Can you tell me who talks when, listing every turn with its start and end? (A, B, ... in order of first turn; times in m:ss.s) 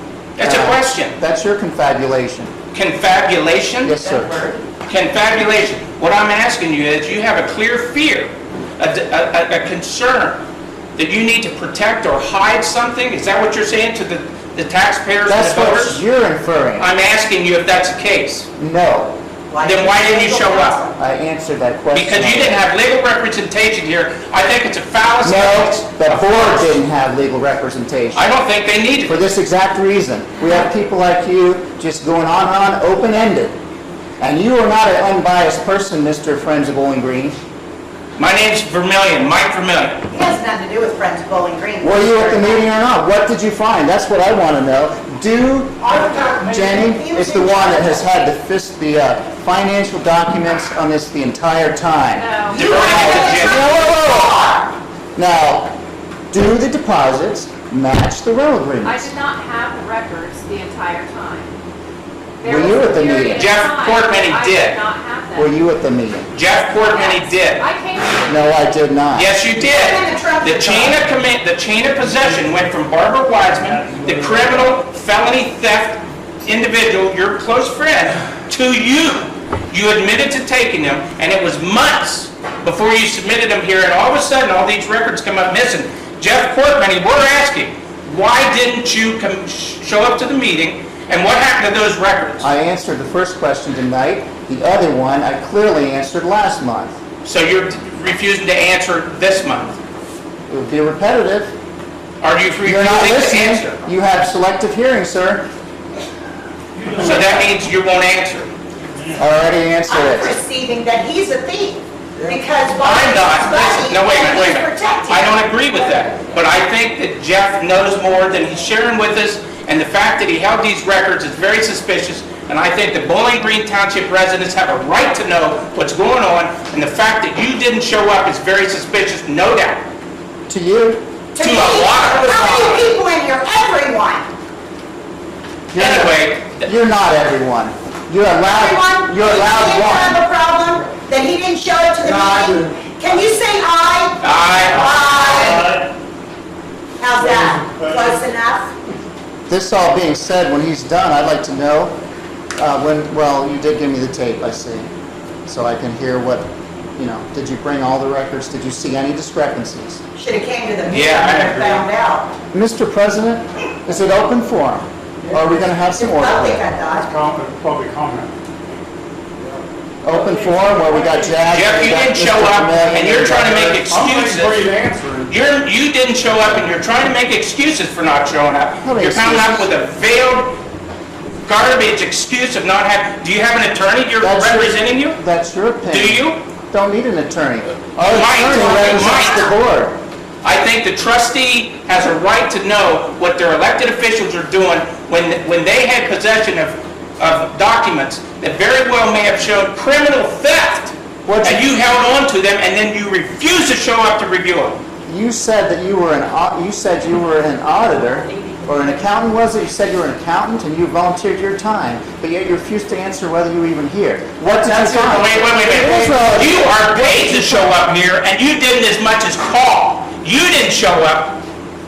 0:00.4-0:01.2 A
0:00.4-0:02.5 B
0:02.7-0:04.0 A
0:03.8-0:04.4 B
0:04.0-0:04.6 C
0:04.9-0:10.4 A
0:11.0-0:16.0 A
0:15.2-0:16.9 B
0:16.8-0:18.5 A
0:18.6-0:19.2 B
0:19.5-0:21.0 C
0:19.6-0:20.8 A
0:21.0-0:22.6 B
0:21.9-0:26.8 A
0:25.2-0:28.3 B
0:28.1-0:29.2 A
0:29.1-0:33.6 B
0:34.2-0:37.4 B
0:38.2-0:40.0 A
0:40.1-0:42.7 C
0:41.8-0:54.5 B
0:45.8-0:48.2 C
0:52.1-0:53.2 D
0:52.5-0:54.7 C
0:52.5-0:53.8 A
0:55.2-0:55.7 B
0:56.3-0:59.1 B
0:58.8-1:01.6 D
1:02.4-1:05.5 D
1:02.4-1:03.5 B
1:03.4-1:04.8 A
1:05.4-1:06.3 B
1:06.3-1:07.7 A
1:06.7-1:08.7 D
1:08.3-1:09.4 B
1:09.2-1:32.5 A
1:09.6-1:11.0 C
1:13.7-1:14.5 E
1:32.4-1:37.0 B
1:37.2-1:39.8 A
1:40.5-1:41.5 B
1:42.2-1:43.8 A
1:42.6-1:45.5 B
1:46.9-1:48.5 A
1:49.2-1:50.4 B
1:49.9-1:55.4 C
1:52.8-2:09.9 A
2:10.5-2:11.0 B
2:11.4-2:14.3 C
2:11.4-2:12.9 A
2:15.7-2:20.2 B
2:15.8-2:16.7 A
2:18.5-2:25.7 C
2:22.0-2:22.6 E
2:24.2-2:24.9 A
2:27.0-2:28.7 C
2:27.2-2:28.2 E
2:29.5-2:32.0 B
2:32.6-2:34.9 B
2:35.5-2:40.0 B
2:40.2-2:42.3 C
2:40.9-2:41.9 A
2:42.5-2:46.6 B
2:45.2-2:45.7 E
2:45.9-2:47.1 C
2:46.9-2:48.3 E
2:50.0-2:53.8 B
2:50.1-2:51.4 E
2:51.5-2:54.7 A
2:53.4-2:55.4 E
2:55.3-3:00.6 A
2:58.8-2:59.7 B
3:01.5-3:05.2 A
3:04.2-3:10.0 B
3:05.9-3:06.4 A
3:08.0-3:09.5 A
3:08.4-3:09.5 C
3:10.4-3:24.8 A
3:21.2-3:21.7 B
3:25.1-3:37.8 B
3:28.1-3:28.6 D
3:34.6-3:41.4 A